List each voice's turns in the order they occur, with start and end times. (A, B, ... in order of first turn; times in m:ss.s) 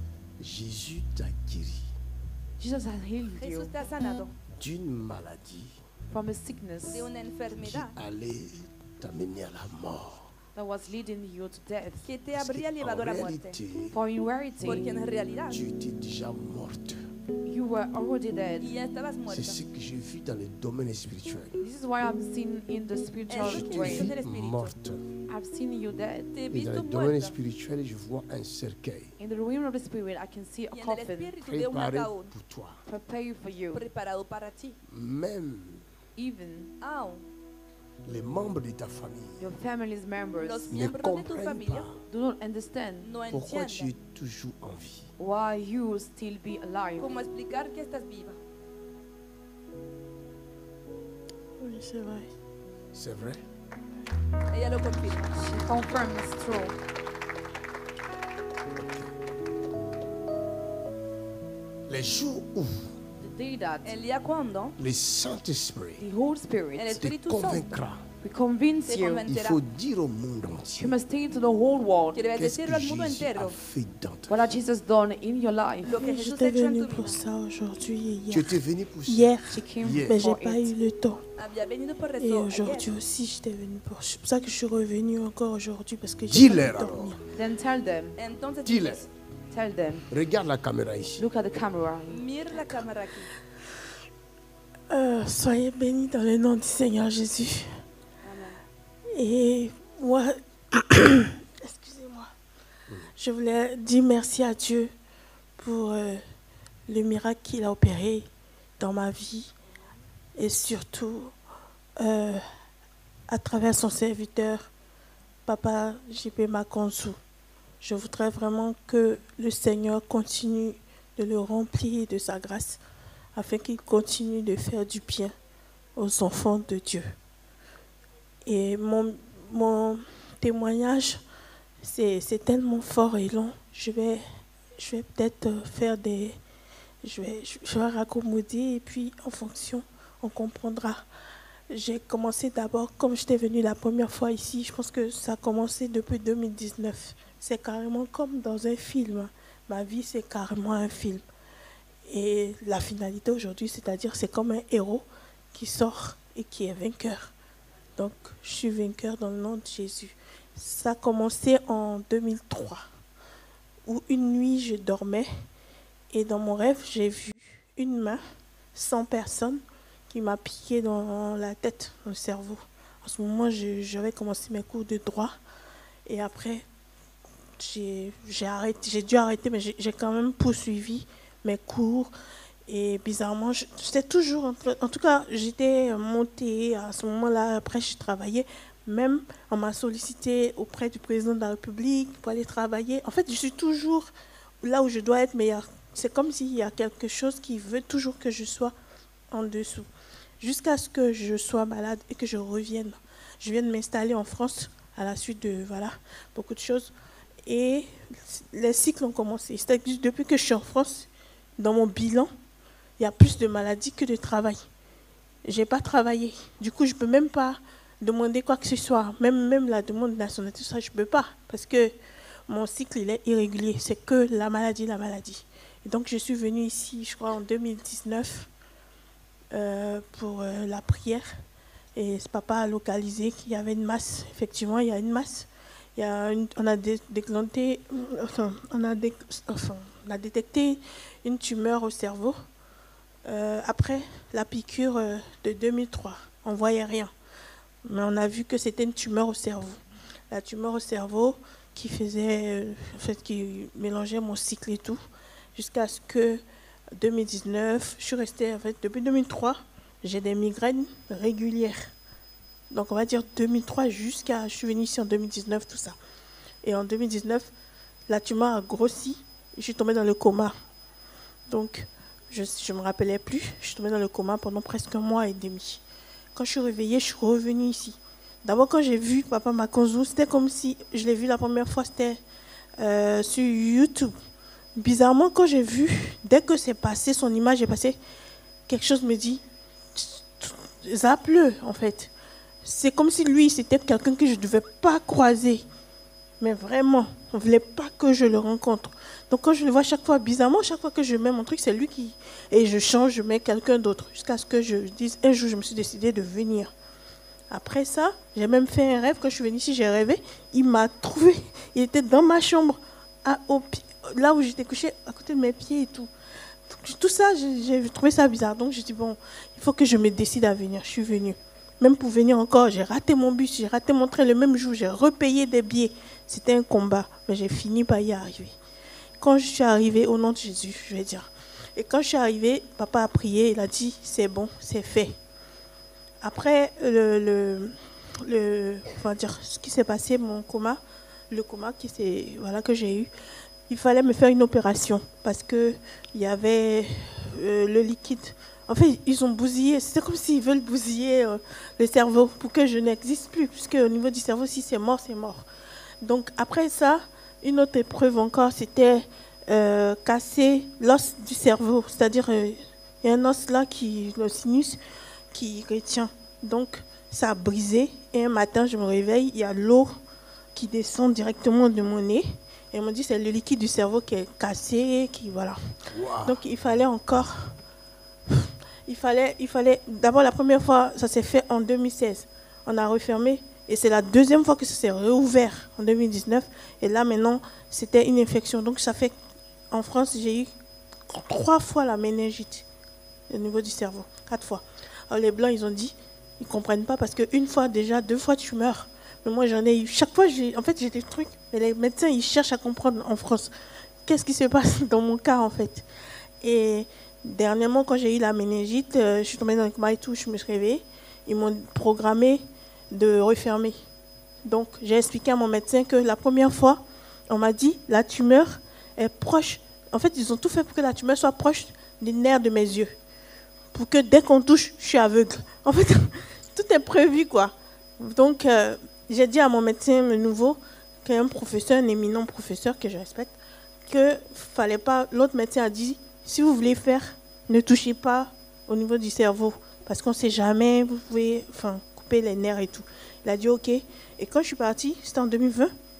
0:00.4-0:01.9 A
0:02.6-0:03.7 B
0:03.3-0:04.3 C
0:04.6-0:05.8 A
0:06.1-0:07.0 B
0:06.9-0:07.9 C
0:07.6-0:10.3 A
0:10.5-0:12.0 B
0:12.0-0:13.6 C
0:12.3-0:13.9 A
0:13.9-0:14.9 B
0:14.6-0:15.6 C
0:15.5-0:17.1 A
0:17.4-0:18.7 B
0:18.6-0:19.6 C
0:19.3-0:21.6 A
0:21.6-0:24.1 B
0:23.3-0:24.7 C
0:23.4-0:25.0 A
0:25.3-0:26.3 B
0:26.3-0:27.3 C
0:26.5-0:29.1 A
0:29.2-0:31.3 B
0:30.7-0:32.3 C
0:31.4-0:32.8 A
0:32.9-0:33.8 B
0:33.7-0:34.8 C
0:34.9-0:35.8 A
0:36.2-0:36.7 B
0:36.8-0:37.2 C
0:38.0-0:39.4 A
0:39.4-0:40.7 B
0:40.4-0:41.9 C
0:40.7-0:42.0 A
0:42.1-0:43.1 B
0:43.0-0:43.9 C
0:43.3-0:45.1 A
0:45.2-0:47.1 B
0:47.0-0:48.4 C
0:51.6-0:52.3 D
0:52.9-0:53.4 A
0:54.5-0:55.5 C
0:55.4-0:56.7 B
1:01.9-1:02.9 A
1:03.2-1:03.9 B
1:03.8-1:04.7 C
1:04.8-1:06.0 A
1:06.0-1:07.0 B
1:06.7-1:07.6 C
1:07.0-1:08.0 A
1:08.2-1:09.2 B
1:08.8-1:09.6 C
1:09.3-1:11.0 A
1:10.8-1:12.2 B
1:12.1-1:13.6 C
1:12.4-1:14.4 A
1:14.3-1:16.0 B
1:15.8-1:17.2 C
1:16.0-1:21.2 D
1:18.3-1:20.2 A
1:19.5-1:20.7 B
1:21.4-1:22.9 C
1:22.2-1:27.2 D
1:26.3-1:27.2 A
1:27.3-1:28.1 B
1:28.2-1:29.1 C
1:28.6-1:29.0 A
1:29.5-1:30.0 B
1:30.1-1:31.3 A
1:31.2-1:32.8 B
1:32.0-1:33.3 C
1:34.9-1:37.7 D
1:38.2-1:38.6 B
1:39.1-1:42.3 D
1:43.2-1:44.9 D
1:45.6-1:46.2 D
1:46.9-1:48.3 D
1:48.8-1:49.5 D
1:50.4-1:51.3 D
1:52.0-1:52.4 D
1:53.3-1:54.7 D
1:55.4-1:57.2 D
1:57.8-2:02.8 D
2:03.4-2:05.3 D
2:06.0-2:07.1 D
2:08.4-2:11.2 D
2:11.8-2:14.2 D
2:14.8-2:16.4 D
2:17.0-2:21.0 D
2:21.7-2:31.2 D
2:32.0-2:37.3 D
2:38.0-2:42.8 D
2:43.8-2:45.3 D
2:46.1-2:48.2 D
2:48.7-2:55.3 D
2:56.0-2:56.6 D
2:57.6-3:02.1 D
3:02.7-3:14.1 D
3:14.6-3:18.7 D
3:19.3-3:19.9 D
3:20.4-3:26.9 D
3:27.4-3:31.1 D
3:31.6-3:32.3 D
3:33.0-3:34.6 D
3:35.4-3:41.9 D
3:42.5-3:48.5 D
3:49.5-3:51.3 D
3:52.0-4:02.3 D
4:03.2-4:07.1 D
4:07.8-4:15.0 D
4:15.6-4:16.4 D
4:17.0-4:21.9 D
4:22.7-4:25.9 D
4:26.6-4:27.5 D
4:28.1-4:30.5 D
4:31.5-4:35.8 D
4:36.3-4:42.2 D
4:42.8-4:44.1 D
4:44.8-4:48.0 D
4:48.7-4:49.4 D
4:49.9-4:52.1 D
4:52.6-4:55.6 D
4:56.4-5:06.7 D
5:07.5-5:16.1 D
5:16.7-5:28.5 D
5:29.2-5:35.1 D
5:36.2-5:40.8 D
5:41.3-5:43.1 D
5:43.7-5:55.4 D
5:56.0-6:04.8 D
6:05.3-6:09.9 D
6:10.5-6:15.6 D
6:15.9-6:16.4 A
6:16.2-6:17.5 D
6:18.3-6:29.1 D
6:29.7-6:30.5 D
6:31.1-6:32.6 D
6:33.3-6:43.5 D
6:44.0-6:45.8 D
6:46.4-6:53.8 D
6:54.4-7:02.9 D
7:03.7-7:13.3 D
7:13.9-7:25.7 D